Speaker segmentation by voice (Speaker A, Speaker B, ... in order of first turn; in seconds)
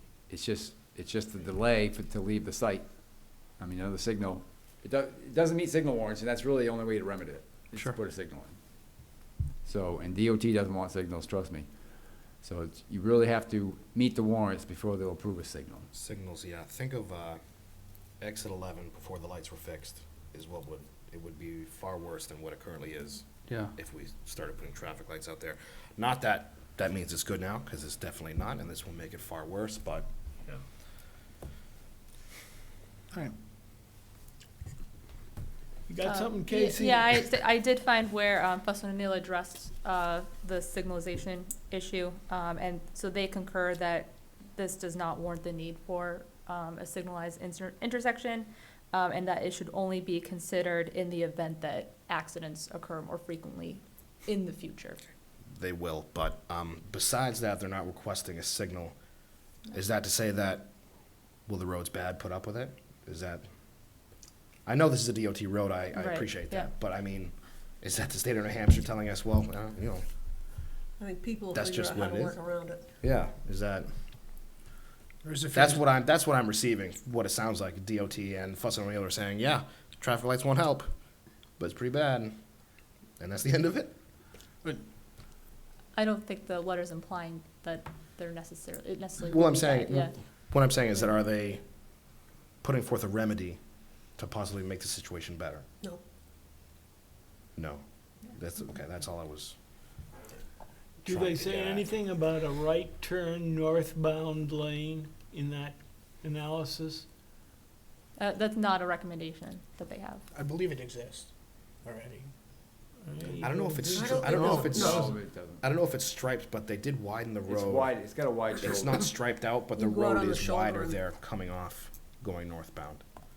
Speaker A: 0.3-8.6, 9.7-15.9, 114.5-115.6, 117.5-119.1
Speaker B: 15.9-17.4, 18.2-30.1, 55.5-59.0, 59.7-63.5, 64.7-70.0, 71.5-72.4, 73.0-73.9, 75.5-80.9, 81.6-82.4, 83.2-83.9, 89.2-91.6, 92.6-93.6, 94.2-95.7, 97.6-99.6, 101.1-101.9, 113.4-117.9, 118.6-123.0
Speaker C: 35.9-37.3, 101.0-107.1, 113.0-115.0
Speaker D: 36.0-55.0, 66.0-66.7, 86.0-90.2, 108.2-110.2
Speaker E: 71.0-72.8, 113.9-115.0, 119.8-121.0
Speaker F: 75.2-75.8, 110.3-111.3, 111.8-112.3